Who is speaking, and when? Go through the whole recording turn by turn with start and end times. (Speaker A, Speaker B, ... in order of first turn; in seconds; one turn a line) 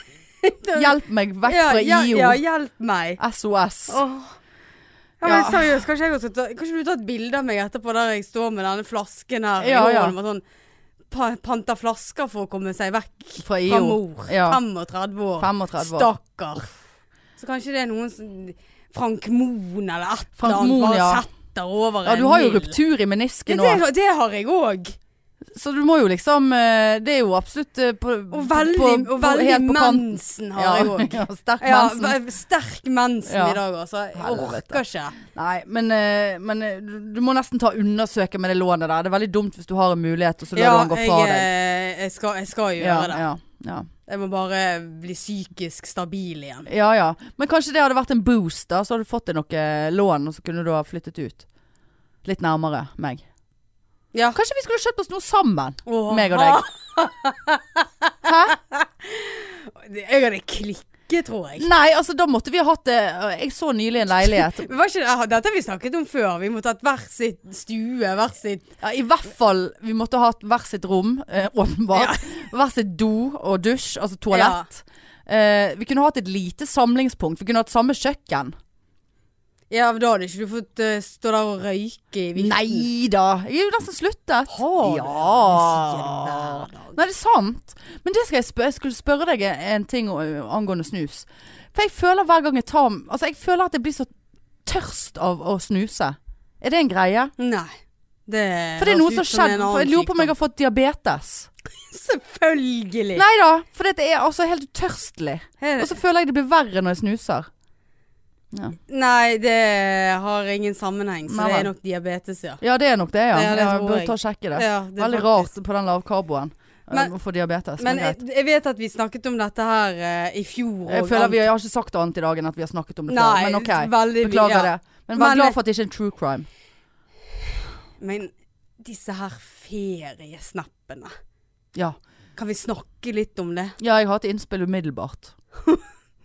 Speaker A: 0.4-3.2
Speaker B: 0.8-2.4
Speaker B: 3.2-4.0
Speaker A: 3.9-4.4
Speaker A: 5.2-10.4
Speaker B: 5.2-5.8
Speaker B: 9.6-10.1
Speaker A: 11.1-16.7
Speaker B: 13.4-14.6
Speaker B: 15.4-16.1
Speaker A: 17.4-22.8
Speaker B: 20.4-21.2
Speaker B: 22.1-23.8
Speaker A: 23.5-25.0
Speaker B: 25.5-32.2
Speaker A: 28.3-35.2
Speaker B: 33.3-33.6
Speaker B: 34.2-41.5
Speaker A: 40.5-43.2
Speaker B: 42.8-43.9
Speaker A: 44.1-46.7
Speaker B: 46.7-51.5
Speaker B: 52.2-53.2
Speaker B: 54.4-56.6
Speaker A: 55.9-61.7
Speaker B: 58.2-58.6
Speaker B: 61.6-64.7
Speaker A: 64.2-68.7
Speaker B: 68.8-78.5
Speaker A: 71.9-72.3
Speaker A: 74.3-74.7
Speaker A: 79.7-82.9
Speaker B: 82.4-94.1
Speaker A: 84.5-87.0
Speaker B: 94.7-97.3
Speaker A: 97.4-97.7
Speaker A: 98.3-100.3
Speaker B: 98.8-101.5
Speaker A: 101.9-103.2
Speaker B: 103.2-107.5
Speaker A: 105.6-105.9
Speaker B: 108.5-108.8
Speaker A: 108.9-112.6
Speaker B: 111.3-111.7
Speaker B: 112.6-118.2
Speaker A: 113.3-115.5
Speaker A: 117.8-121.5
Speaker B: 120.9-126.5
Speaker A: 123.1-125.6
Speaker A: 128.0-131.1
Speaker A: 132.4-133.8
Speaker B: 133.8-135.3